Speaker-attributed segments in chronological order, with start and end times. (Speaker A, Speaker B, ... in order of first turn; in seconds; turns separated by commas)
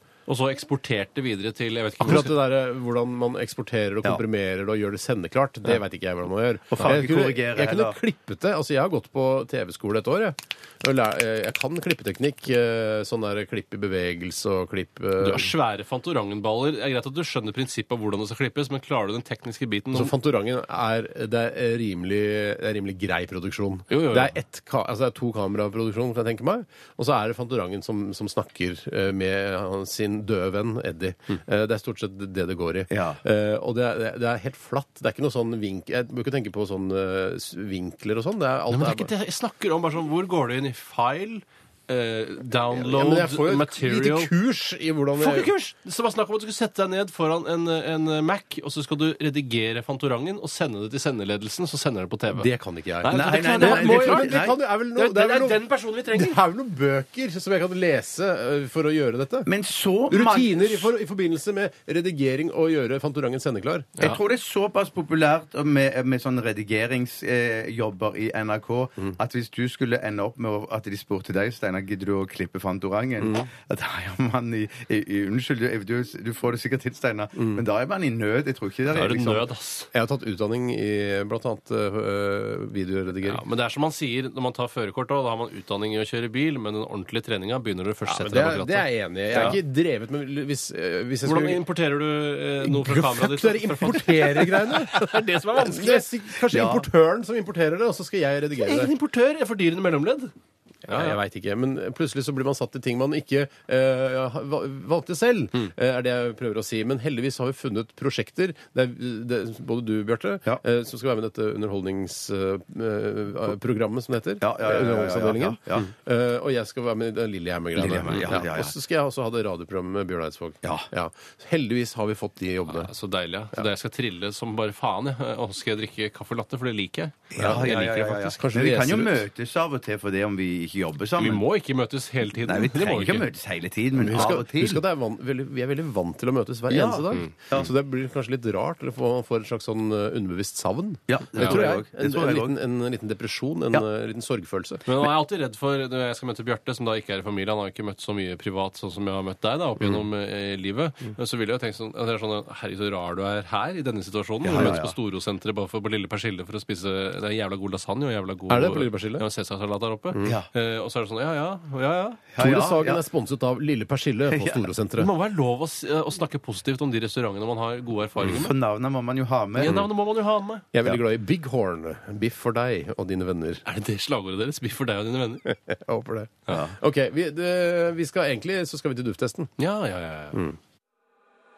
Speaker A: 0.3-2.3, Speaker B: 2.0-15.5, Speaker C: 6.7-8.0, Speaker A: 15.2-20.1, Speaker B: 19.9-39.1, Speaker A: 23.9-24.3, Speaker C: 32.9-33.2, Speaker A: 38.7-44.3, Speaker B: 42.8-45.5, Speaker A: 45.2-52.5, Speaker B: 52.3-59.5, Speaker A: 53.0-56.4, Speaker C: 53.1-54.6, Speaker C: 59.5-60.9, Speaker B: 60.1-63.9, Speaker C: 64.0-79.5, Speaker B: 73.2-73.5, Speaker B: 77.4-77.6, Speaker A: 78.9-79.9, Speaker B: 79.9-83.4, Speaker A: 83.3-89.6, Speaker B: 88.0-91.6, Speaker C: 89.3-89.6, Speaker A: 91.2-96.1, Speaker B: 92.6-98.9, Speaker C: 96.5-96.9, Speaker A: 98.6-100.3, Speaker B: 100.9-122.9, Speaker A: 100.9-101.2, Speaker C: 114.4-115.9, Speaker C: 117.8-118.7, Speaker A: 122.7-128.4, Speaker C: 127.3-131.4, Speaker B: 127.4-127.7, Speaker B: 128.4-129.2, Speaker A: 131.2-133.3, Speaker C: 132.3-134.8, Speaker B: 134.0-144.9, Speaker C: 136.7-137.7, Speaker C: 141.1-142.6, Speaker A: 141.4-141.7, Speaker A: 144.9-162.2, Speaker C: 154.4-154.9, Speaker B: 158.5-159.2, Speaker C: 160.2-160.5, Speaker C: 162.3-163.0, Speaker B: 162.4-165.1, Speaker C: 164.3-164.7, Speaker A: 165.0-168.5, Speaker C: 168.2-169.8, Speaker A: 169.6-170.7, Speaker B: 170.7-173.6, Speaker A: 173.7-175.5, Speaker B: 175.5-179.5, Speaker C: 176.5-176.7, Speaker A: 179.6-180.4